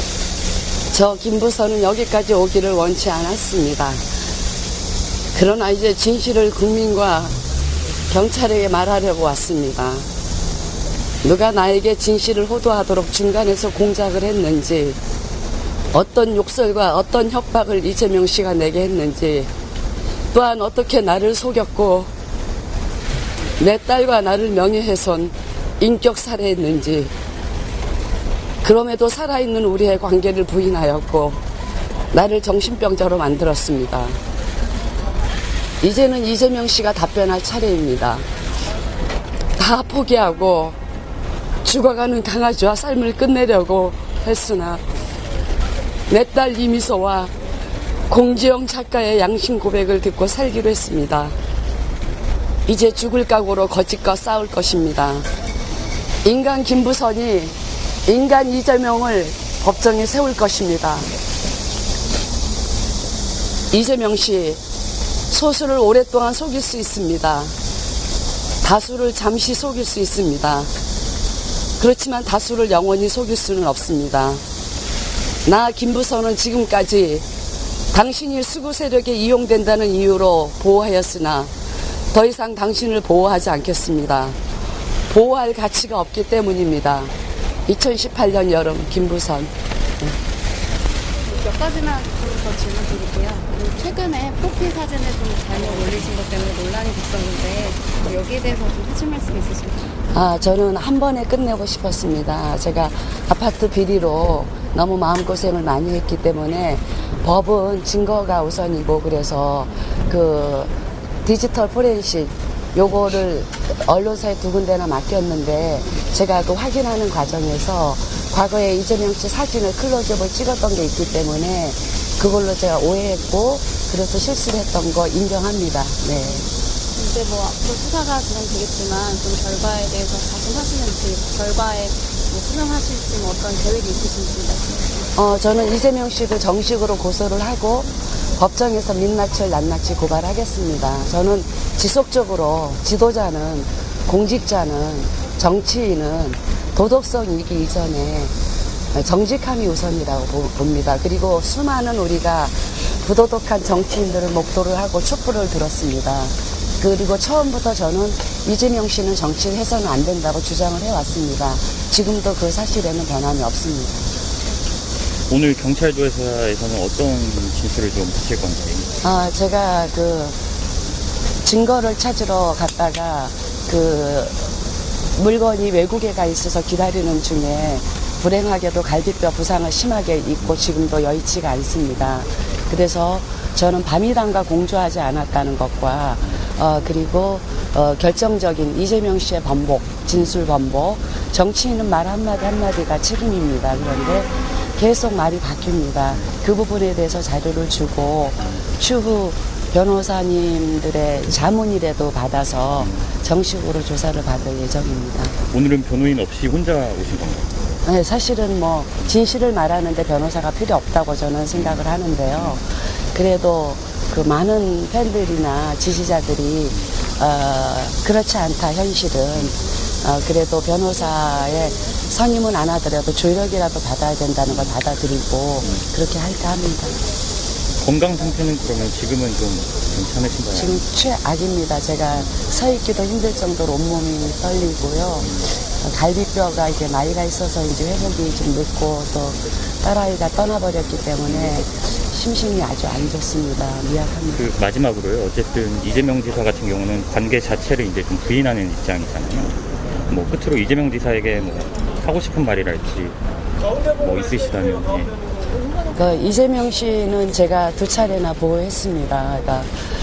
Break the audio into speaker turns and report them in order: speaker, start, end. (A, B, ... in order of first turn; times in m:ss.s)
0:00.9-0:04.0 A
0:05.3-0:07.4 A
0:08.1-0:10.0 A
0:11.2-0:15.0 A
0:15.9-0:19.5 A
0:20.3-0:22.1 A
0:23.6-0:27.1 A
0:28.6-0:31.4 A
0:32.1-0:34.2 A
0:35.8-0:38.2 A
0:39.6-0:40.8 A
0:41.6-0:44.8 A
0:46.1-0:47.3 A
0:48.1-0:51.3 A
0:52.7-0:55.2 A
0:56.2-1:01.1 A
1:03.7-1:04.6 A
1:05.3-1:07.5 A
1:08.6-1:10.7 A
1:11.8-1:14.4 A
1:15.4-1:17.3 A
1:17.9-1:21.5 A
1:22.1-1:24.4 A
1:25.1-1:27.1 A
1:27.7-1:29.5 A
1:31.3-1:39.9 B
1:40.1-1:50.7 A
1:51.2-2:06.5 A
2:07.0-2:14.9 B
2:15.2-2:28.3 A
2:28.9-2:44.1 A
2:45.3-2:48.9 C
2:49.0-2:50.4 A
2:51.4-2:54.4 A
2:55.2-3:25.4 A
3:25.5-3:27.5 C
3:27.9-3:47.0 A
3:47.8-3:50.8 C
3:50.6-4:04.4 A
4:04.4-4:09.6 C
4:10.1-4:13.2 C
4:13.9-4:15.2 C
4:15.9-4:19.7 A